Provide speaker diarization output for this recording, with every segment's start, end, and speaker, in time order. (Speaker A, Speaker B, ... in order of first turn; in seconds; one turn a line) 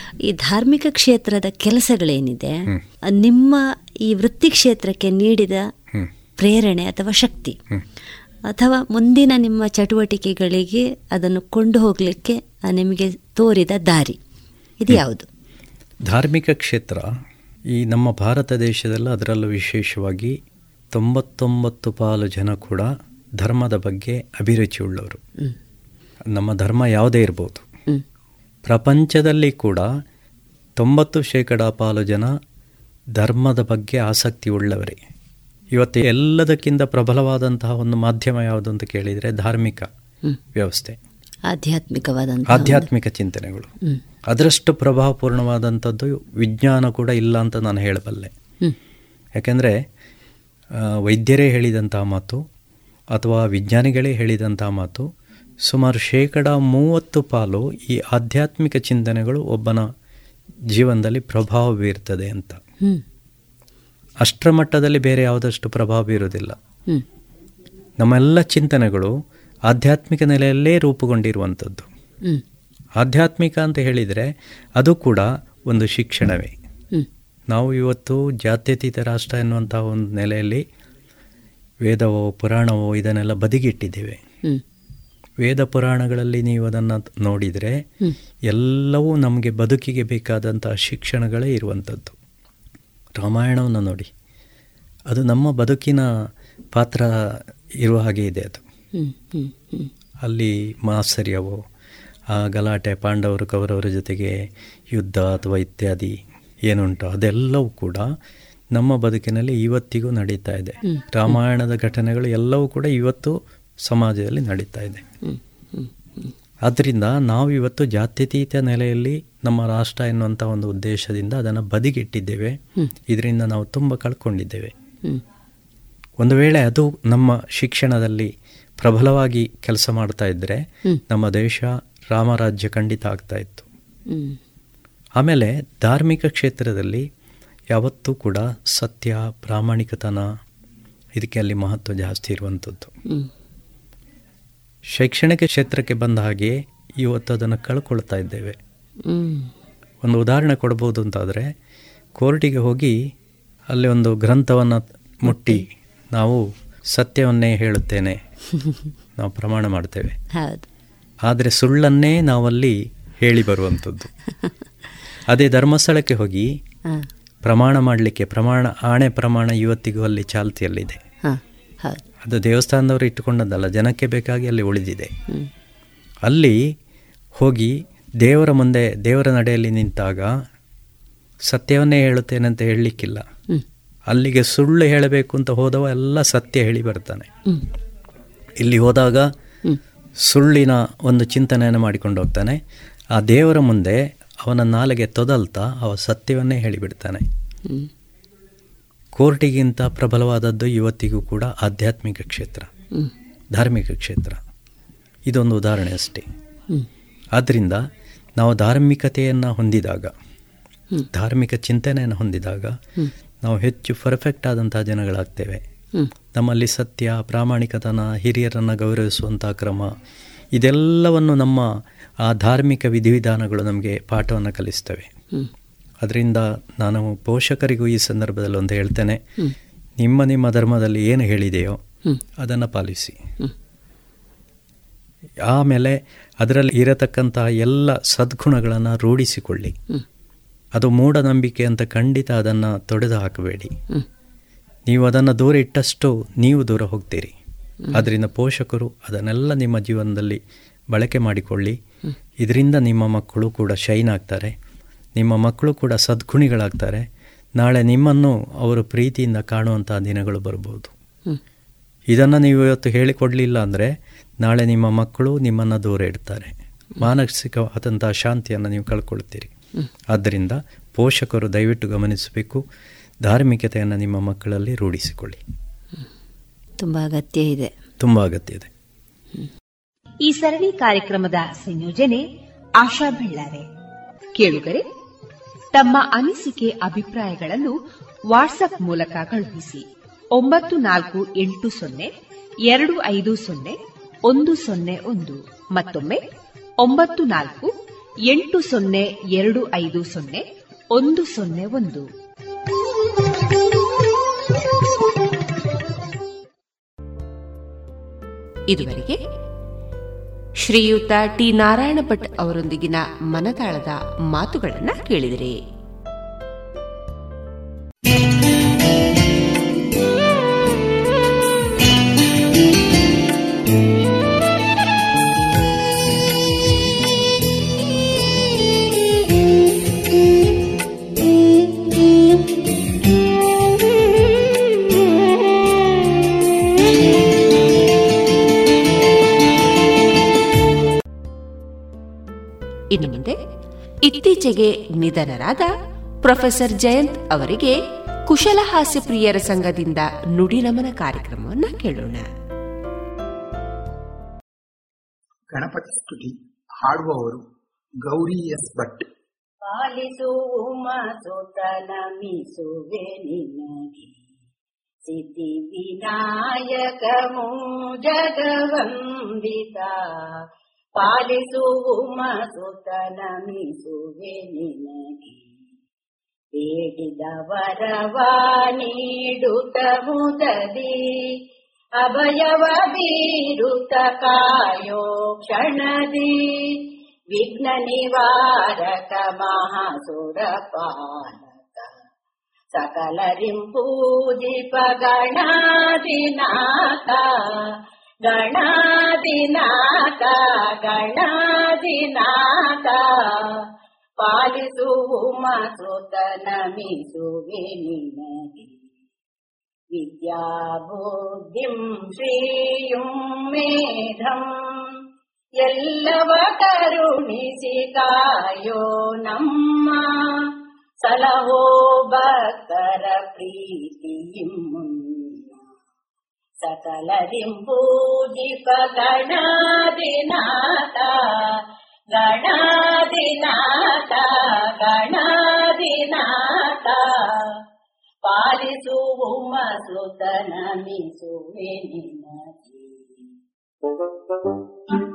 Speaker A: 0.3-5.7
Speaker A: 6.4-7.6
Speaker A: 8.5-14.2
Speaker A: 14.8-15.3
Speaker B: 16.1-17.1
Speaker B: 17.8-20.4
Speaker B: 20.9-25.2
Speaker B: 26.3-27.7
Speaker B: 28.6-29.9
Speaker B: 30.8-32.3
Speaker B: 33.2-35.0
Speaker B: 35.8-39.9
Speaker B: 40.6-41.0
Speaker A: 41.5-42.9
Speaker B: 42.5-43.7
Speaker B: 44.3-48.3
Speaker B: 49.4-49.7
Speaker B: 51.1-52.4
Speaker B: 53.1-55.1
Speaker B: 55.7-59.9
Speaker B: 60.7-62.6
Speaker B: 64.2-66.6
Speaker B: 68.0-69.1
Speaker B: 69.7-71.9
Speaker B: 73.0-74.3
Speaker B: 74.8-76.6
Speaker B: 77.5-80.6
Speaker B: 81.8-84.2
Speaker B: 85.4-87.8
Speaker B: 88.5-92.2
Speaker B: 93.2-94.1
Speaker B: 95.1-96.1
Speaker B: 96.8-97.1
Speaker B: 97.8-98.6
Speaker A: 99.0-99.9
Speaker B: 100.2-101.6
Speaker B: 102.3-104.3
Speaker B: 104.9-106.2
Speaker B: 106.7-108.1
Speaker B: 108.7-113.3
Speaker A: 110.8-111.4
Speaker B: 113.9-115.0
Speaker A: 115.2-116.3
Speaker B: 116.7-124.7
Speaker B: 126.2-128.3
Speaker B: 128.8-133.7
Speaker A: 134.1-134.4
Speaker B: 135.2-137.1
Speaker B: 137.7-140.2
Speaker B: 141.2-142.9
Speaker B: 144.9-148.6
Speaker A: 149.1-149.5
Speaker B: 150.0-151.5
Speaker B: 152.2-153.0
Speaker B: 153.7-156.4
Speaker A: 155.3-155.7
Speaker B: 156.9-158.2
Speaker B: 159.2-160.2
Speaker A: 160.3-160.7
Speaker B: 161.3-164.1
Speaker B: 165.3-166.5
Speaker B: 167.4-171.0
Speaker A: 171.2-172.0
Speaker B: 172.2-175.1
Speaker B: 176.3-176.6
Speaker B: 177.4-180.3
Speaker B: 181.5-183.2
Speaker B: 184.1-187.3
Speaker B: 188.6-189.3
Speaker B: 190.3-192.6
Speaker B: 193.2-197.2
Speaker B: 199.2-202.7
Speaker B: 203.6-204.4
Speaker B: 205.3-206.2
Speaker B: 207.4-207.8
Speaker B: 208.4-210.1
Speaker B: 211.1-212.9
Speaker B: 213.4-215.6
Speaker B: 216.3-219.9
Speaker B: 220.6-221.7
Speaker B: 222.3-225.1
Speaker B: 226.0-229.2
Speaker B: 230.0-231.8
Speaker B: 232.4-233.2
Speaker B: 235.5-239.8
Speaker B: 240.8-243.7
Speaker B: 244.9-247.3
Speaker B: 247.9-250.4
Speaker B: 250.9-251.8
Speaker B: 252.4-254.5
Speaker B: 255.2-257.1
Speaker B: 257.6-260.9
Speaker B: 262.1-263.9
Speaker B: 264.4-269.5
Speaker B: 270.1-272.6
Speaker B: 273.3-275.4
Speaker A: 276.8-277.8
Speaker B: 278.0-278.7
Speaker C: 280.2-282.2
Speaker C: 282.8-283.7
Speaker C: 284.4-284.9
Speaker C: 285.7-287.8
Speaker C: 288.3-292.1
Speaker C: 292.7-296.2
Speaker C: 296.8-297.7
Speaker C: 298.3-302.1
Speaker D: 308.7-309.2
Speaker D: 310.6-315.6
Speaker D: 342.9-343.4
Speaker D: 344.1-345.7
Speaker D: 346.2-347.8
Speaker D: 348.3-352.2
Speaker E: 355.5-357.4
Speaker E: 358.0-359.1
Speaker F: 359.7-364.1
Speaker F: 365.1-370.4
Speaker F: 371.0-375.5
Speaker F: 376.5-381.3
Speaker F: 382.0-391.9
Speaker F: 392.7-397.7
Speaker F: 398.3-403.6
Speaker F: 404.2-408.8
Speaker F: 409.9-415.0
Speaker F: 415.6-425.6
Speaker F: 426.6-431.6
Speaker F: 432.1-437.6
Speaker F: 438.2-443.3